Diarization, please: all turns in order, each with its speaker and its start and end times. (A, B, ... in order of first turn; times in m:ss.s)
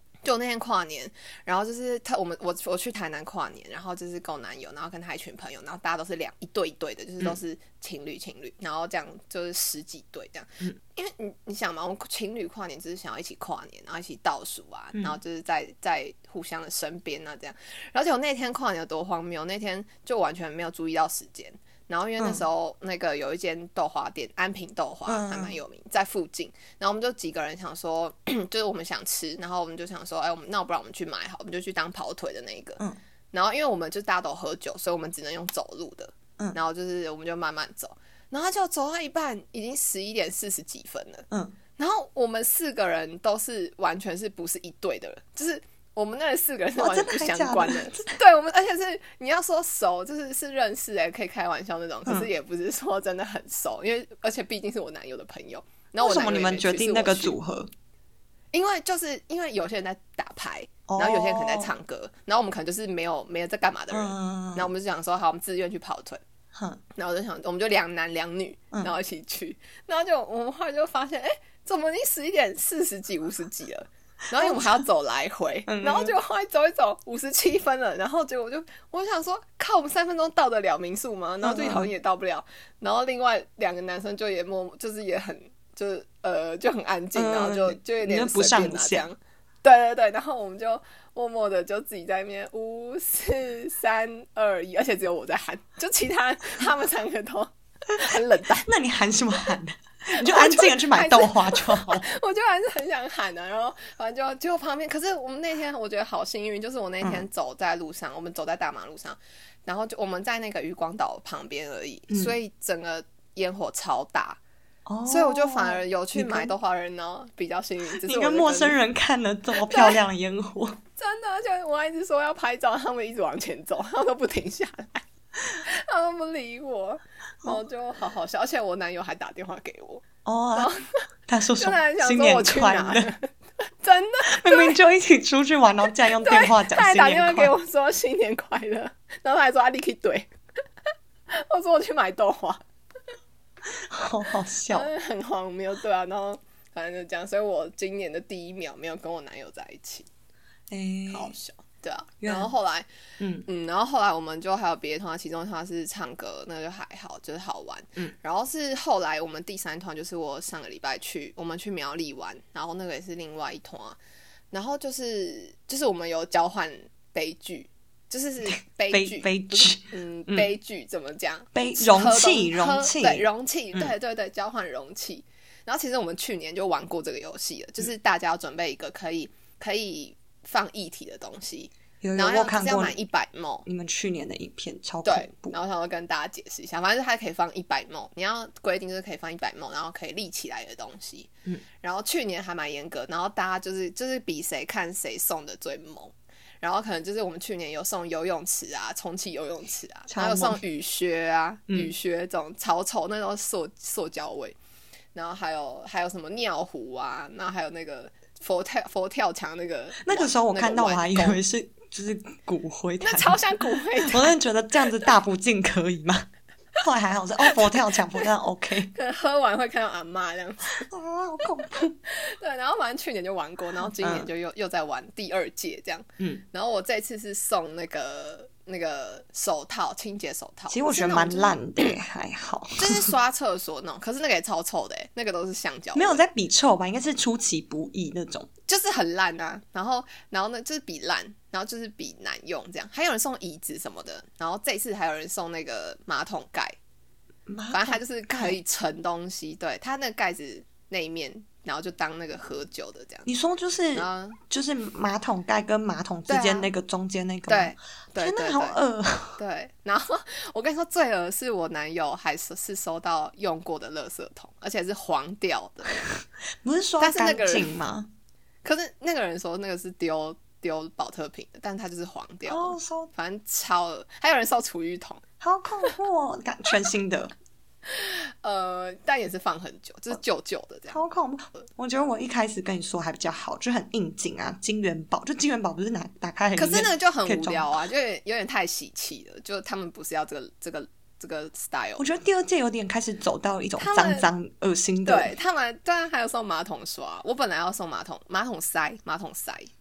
0:00.2-0:57.4 A
0:22.2-0:22.4 B
0:25.1-0:25.6 B
0:46.8-0:48.2 B
0:56.0-0:57.7 B
0:58.5-1:06.2 A
1:00.9-1:01.7 B
1:03.9-1:04.7 B
1:06.5-1:06.8 B
1:07.0-1:38.7 A
1:14.4-1:14.8 B
1:15.7-1:16.2 B
1:21.4-1:21.9 B
1:27.2-1:29.1 B
1:38.1-1:42.1 B
1:40.2-1:54.4 A
1:52.1-1:52.4 B
1:54.9-1:56.5 B
1:55.1-1:58.8 A
1:58.0-2:00.8 B
1:59.6-2:00.0 A
2:01.0-2:10.9 A
2:10.2-2:10.7 B
2:11.3-2:13.1 B
2:11.6-2:14.8 A
2:14.3-2:17.6 B
2:16.2-2:20.3 A
2:21.3-2:22.6 A
2:23.7-2:24.9 B
2:24.7-2:30.1 A
2:30.7-2:31.4 B
2:31.1-2:32.9 A
2:32.2-2:32.5 B
2:33.2-2:33.5 B
2:33.5-2:44.0 A
2:44.5-3:03.7 A
2:48.9-2:50.5 B
2:51.5-2:53.9 B
3:02.0-3:03.0 B
3:03.6-3:05.6 B
3:05.0-3:24.6 A
3:20.1-3:20.6 B
3:21.7-3:21.9 B
3:25.2-3:31.4 A
3:30.0-3:36.3 B
3:33.0-3:34.4 A
3:36.8-3:38.9 B
3:38.9-3:40.9 A
3:40.8-3:42.0 B
3:42.0-3:51.9 A
3:44.0-3:44.3 B
3:50.7-3:53.1 B
3:52.8-3:56.2 A
3:56.0-3:58.5 B
3:58.7-4:06.8 A
4:07.5-4:08.6 B
4:07.7-4:13.3 A
4:13.3-4:19.4 B
4:13.9-4:14.4 A
4:16.3-4:16.7 A
4:17.5-4:18.8 A
4:19.4-4:26.0 A
4:26.6-4:28.1 B
4:27.0-4:27.7 A
4:28.6-4:35.2 A
4:32.5-4:33.1 B
4:35.4-4:37.3 B
4:37.9-4:41.0 A
4:40.9-4:47.8 B
4:46.6-4:52.1 A
4:52.0-4:55.3 B
4:53.8-4:54.3 A
4:55.0-4:59.7 A